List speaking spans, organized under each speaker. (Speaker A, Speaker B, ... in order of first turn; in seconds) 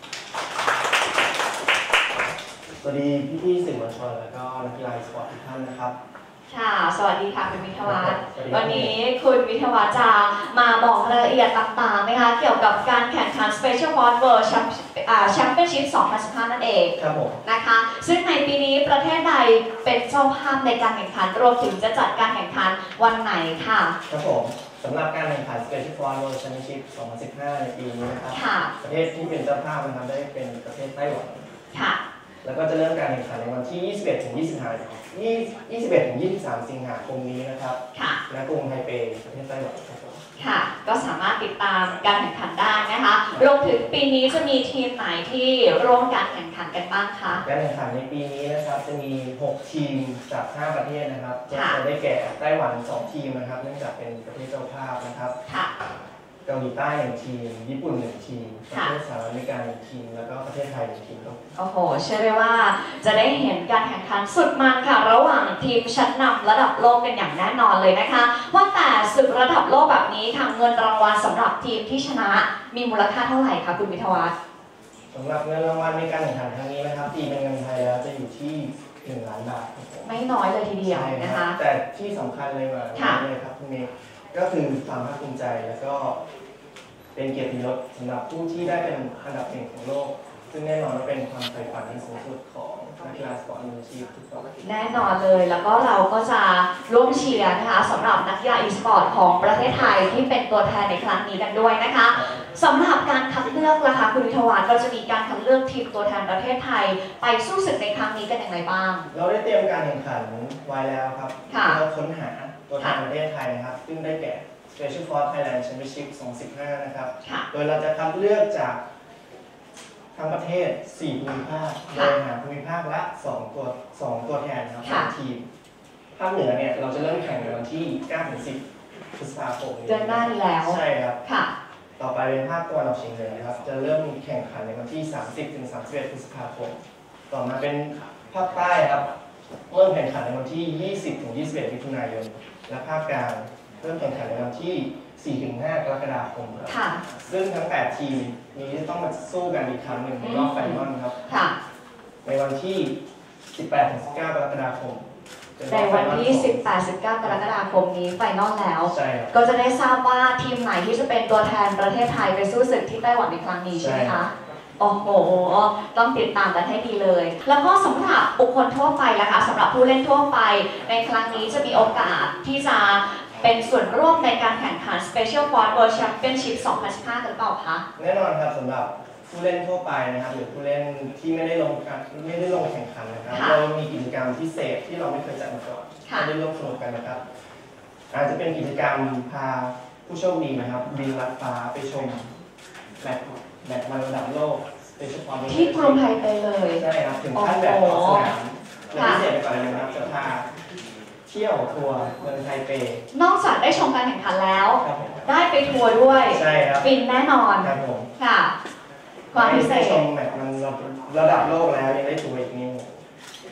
Speaker A: 2.8-5.9, 7.8-9.0, 17.0-17.4, 24.1-31.5, 32.4-40.2, 47.5-55.3, 56.5-61.4, 75.1-80.1, 80.8-86.2, 87.2-94.5, 109.1-118.8, 120.1-125.5, 126.2-128.6, 129.2-131.2, 132.0-139.1, 139.7-151.2, 152.2-153.0, 153.5-155.1, 155.6-156.6, 158.9-159.3, 163.7-164.2, 178.0-187.2, 188.1-192.3, 193.0-196.1, 196.8-200.5, 201.3-203.0, 204.8-205.3, 206.3-206.9, 207.6-208.1, 209.3-213.0
Speaker B: 6.5-24.0, 28.3-28.7, 31.7-32.0, 37.9-38.2, 40.4-47.4, 51.5-51.8, 55.5-55.7, 61.6-74.3, 80.0-81.6, 83.0-83.2, 94.6-109.1, 111.5-111.8, 124.8-125.1, 129.9-131.5, 146.7-147.0, 150.2-151.5, 155.7-177.8, 183.3-183.6, 195.5-196.8, 197.3-198.3, 198.9-199.2, 203.1-208.5, 209.3-210.1